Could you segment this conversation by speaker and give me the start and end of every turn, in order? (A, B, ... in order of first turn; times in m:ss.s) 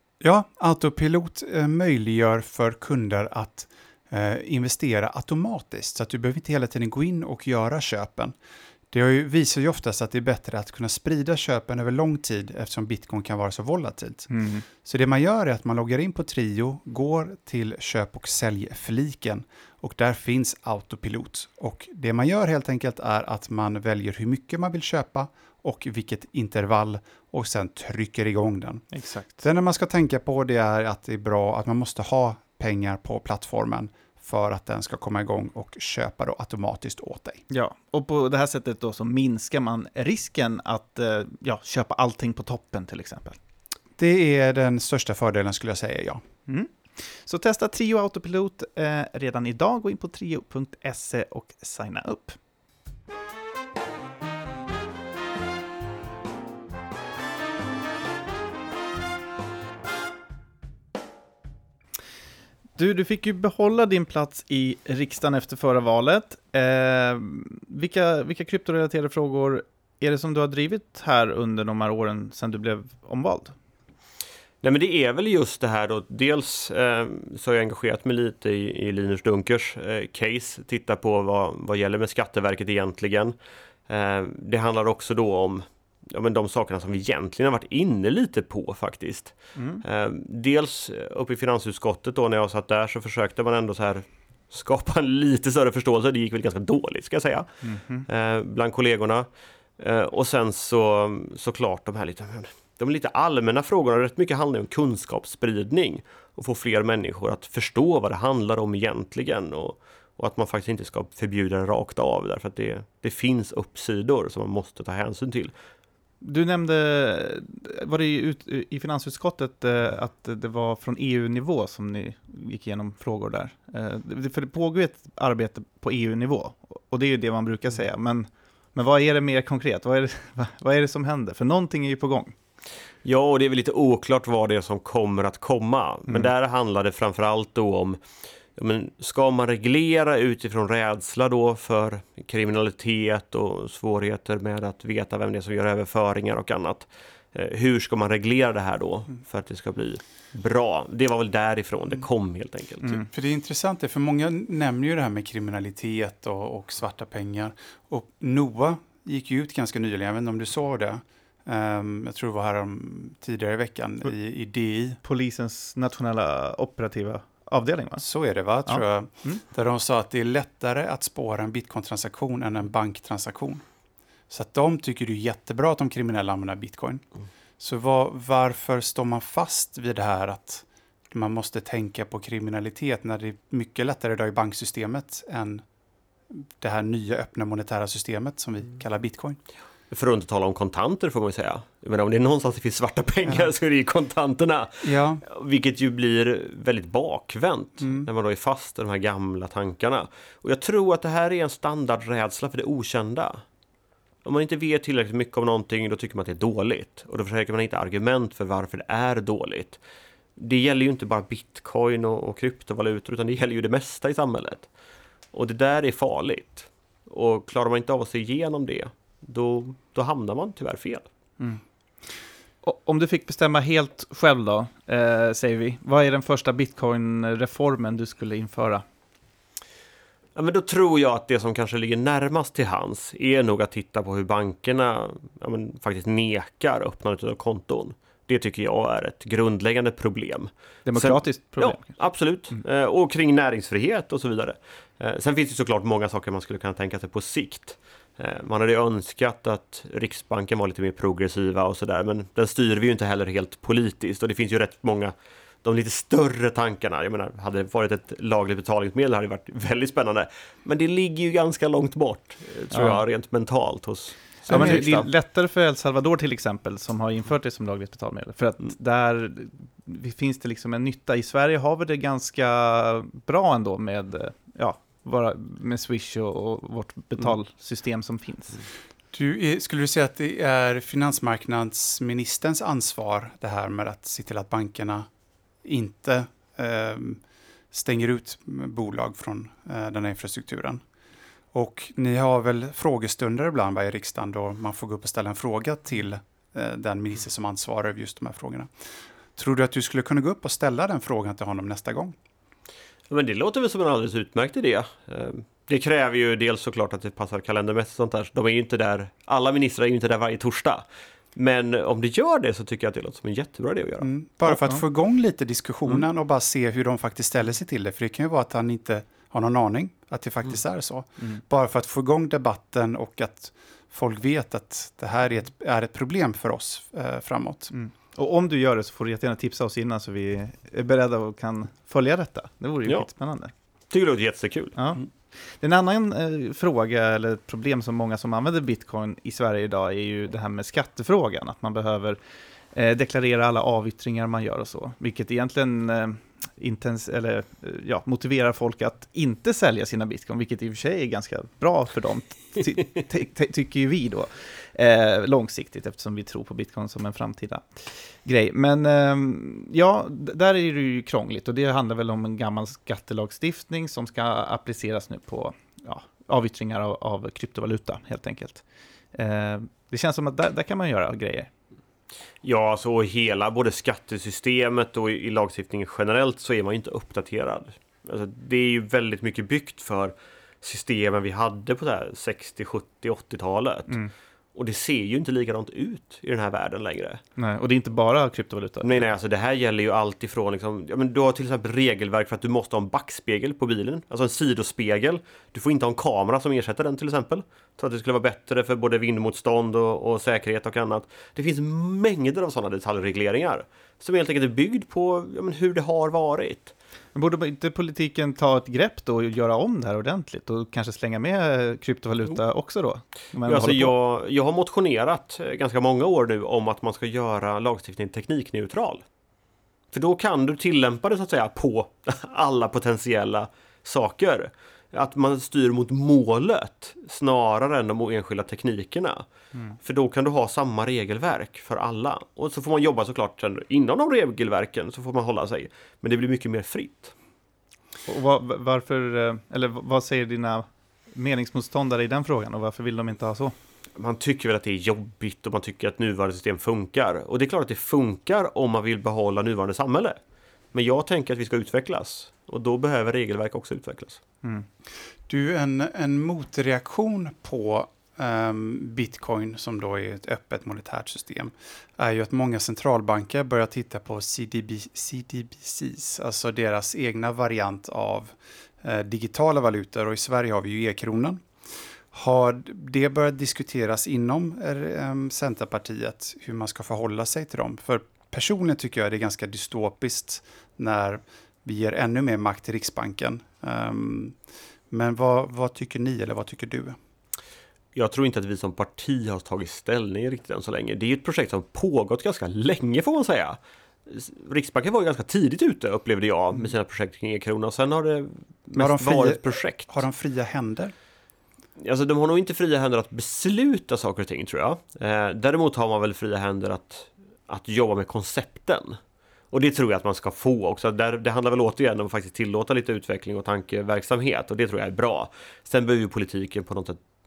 0:00.2-0:08.3 A
0:08.9-0:28.8 A
0:14.3-0:14.6 B
0:28.9-0:29.3 B
0:29.4-0:37.4 A
0:37.5-0:43.4 B
0:44.0-0:46.2 A
0:46.5-0:52.4 B
1:02.8-1:13.5 B
1:14.6-1:23.4 C
1:23.9-1:37.5 C
1:29.6-1:29.8 B
1:37.6-1:38.0 B
1:38.1-1:55.5 C
1:56.2-2:12.4 B
2:13.0-2:18.0 C
2:18.6-2:33.0 C
2:33.1-2:45.0 A
2:45.0-2:48.0 B
2:48.0-2:53.6 A
2:48.6-2:49.4 B
2:54.3-2:57.0 A
2:57.6-3:05.6 A
3:06.3-3:09.4 A
3:09.9-3:23.4 C
3:14.8-3:15.2 A
3:17.8-3:18.1 A
3:24.2-3:29.8 C
3:30.4-3:34.7 C
3:35.3-3:41.1 C
3:42.6-3:48.8 B
3:50.4-4:15.1 C
4:00.8-4:01.9 B
4:15.6-4:25.1 C
4:22.7-4:23.0 B
4:24.5-4:38.6 B
4:24.5-4:24.8 A
4:39.1-4:45.1 A
4:45.6-4:50.8 A
4:51.5-4:58.7 A
4:59.4-5:02.2 A
5:03.1-5:10.8 C
5:11.3-5:14.1 C
5:14.0-5:27.7 A
5:14.5-5:14.8 B
5:27.7-5:33.5 B
5:33.9-5:34.8 C
5:34.8-5:42.2 B
5:42.7-6:08.6 B
6:09.1-6:11.5 B
6:12.4-6:24.0 C
6:24.5-6:27.2 C
6:27.4-6:29.0 B
6:28.8-6:46.7 C
6:47.1-6:53.9 B
6:53.4-6:59.0 C
6:59.9-7:09.2 C
7:09.8-7:17.1 C
7:18.0-7:23.5 B
7:24.0-7:30.2 C
7:30.7-7:34.2 C
7:35.3-7:51.4 A
7:52.1-8:04.4 A
8:04.9-8:07.0 A
8:07.9-8:20.0 C
8:18.8-8:20.9 A
8:21.8-8:29.0 C
8:29.5-8:37.0 C